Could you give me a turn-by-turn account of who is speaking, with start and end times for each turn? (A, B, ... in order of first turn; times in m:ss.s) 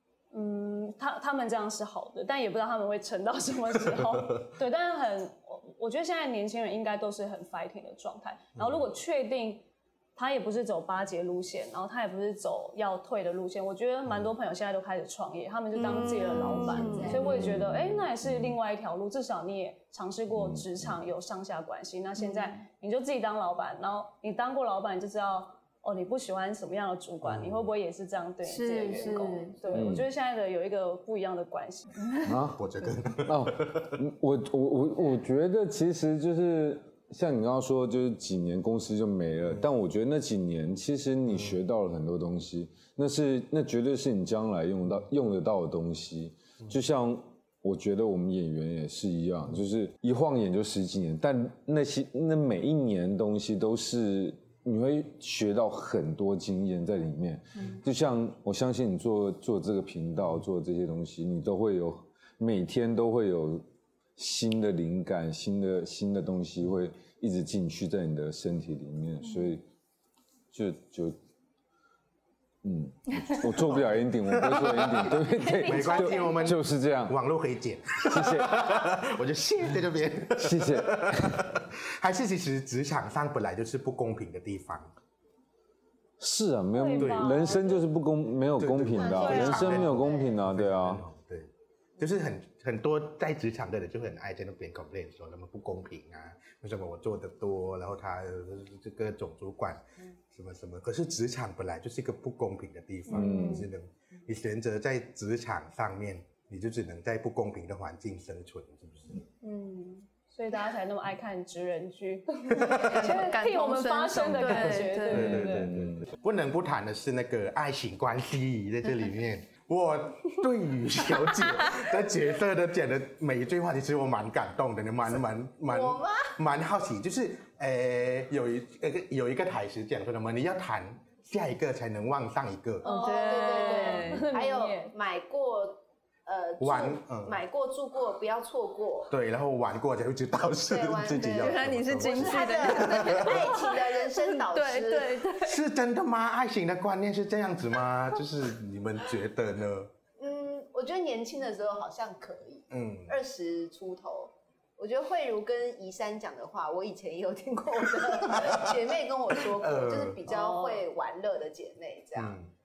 0:00.3-0:32.2 A
0:04.1-0:04.5 B
0:08.5-0:08.8 B
0:15.8-0:17.3 C
0:15.8-0:17.5 D
0:17.1-0:18.6 E
0:20.3-0:21.0 E
0:22.2-0:22.5 C
0:27.2-0:27.7 B
0:28.4-0:29.9 C
0:29.7-0:30.0 E
0:32.2-0:32.6 E
0:32.5-0:34.0 B
0:33.2-1:09.6 E
0:41.3-0:41.6 B
1:10.5-1:11.2 E
1:12.6-1:17.2 E
1:13.6-1:24.9 B
1:15.3-1:16.5 A
1:18.0-1:18.8 E
1:20.4-1:21.4 E
1:26.2-1:31.0 E
1:26.7-1:27.8 A
1:27.0-1:27.7 B
1:28.6-1:49.2 B
1:28.9-1:30.4 D
1:29.2-1:29.6 A
1:43.1-1:43.6 A
1:43.1-1:43.7 E
1:49.4-1:55.7 A
1:52.5-1:53.2 B
1:52.6-1:55.6 C
1:54.2-2:12.9 B
1:55.1-1:56.0 E
2:05.6-2:06.4 D
2:12.8-2:14.3 C
2:12.8-2:14.9 A
2:12.8-2:19.1 D
2:16.6-2:17.4 B
2:19.1-2:23.5 B
2:20.7-2:25.2 D
2:21.3-2:25.6 C
2:25.4-2:29.9 B
2:30.2-2:42.4 D
2:32.7-2:33.1 B
2:38.3-2:38.6 B
2:39.5-2:40.2 B
2:40.2-2:40.8 A
2:42.2-2:42.5 B